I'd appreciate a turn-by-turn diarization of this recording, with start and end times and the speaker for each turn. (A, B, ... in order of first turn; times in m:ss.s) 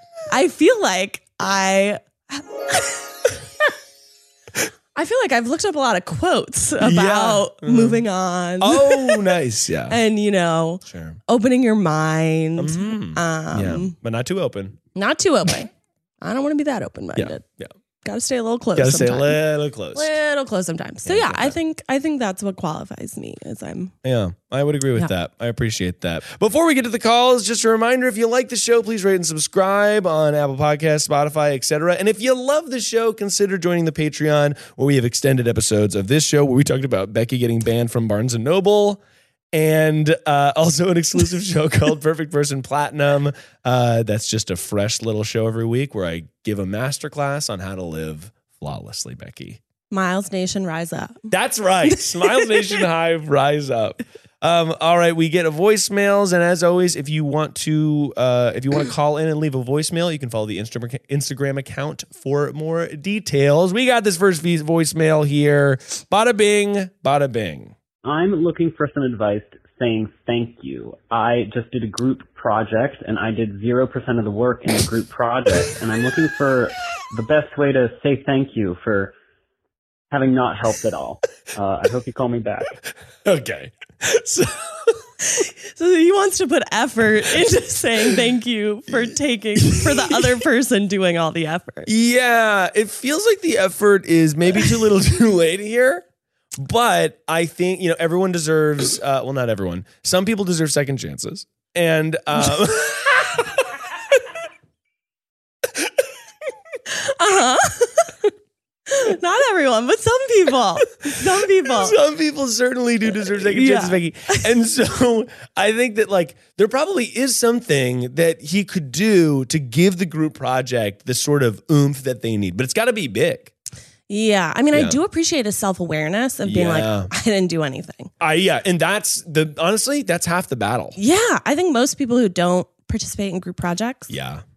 0:00.3-0:03.1 A
0:05.0-0:09.4 A
0:06.8-0:08.0 B
0:08.6-0:10.0 B
0:09.9-0:14.0 A
0:10.8-0:11.2 B
0:12.6-0:14.8 B
0:15.0-0:15.7 A
0:16.2-0:17.4 A
0:17.2-0:17.7 B
0:18.0-0:19.4 A
0:18.8-0:20.1 B
0:19.9-0:23.9 A
0:21.1-0:21.6 B
0:24.0-0:39.0 B
0:39.5-0:49.6 B
0:49.9-0:51.3 A
0:51.3-1:07.7 B
1:08.0-1:19.1 C
1:20.1-1:22.7 C
1:23.2-1:25.0 B
1:25.2-1:31.9 A
1:29.0-1:30.4 B
1:31.9-1:36.0 B
1:36.6-1:43.7 B
1:46.9-1:48.3 A
1:48.9-1:52.0 A
1:51.6-2:03.5 B
1:53.2-1:54.5 A
2:04.1-2:08.1 A
2:04.7-2:05.0 B
2:06.4-2:07.1 B
2:08.2-2:11.0 B
2:11.0-2:14.1 A
2:14.1-2:14.4 B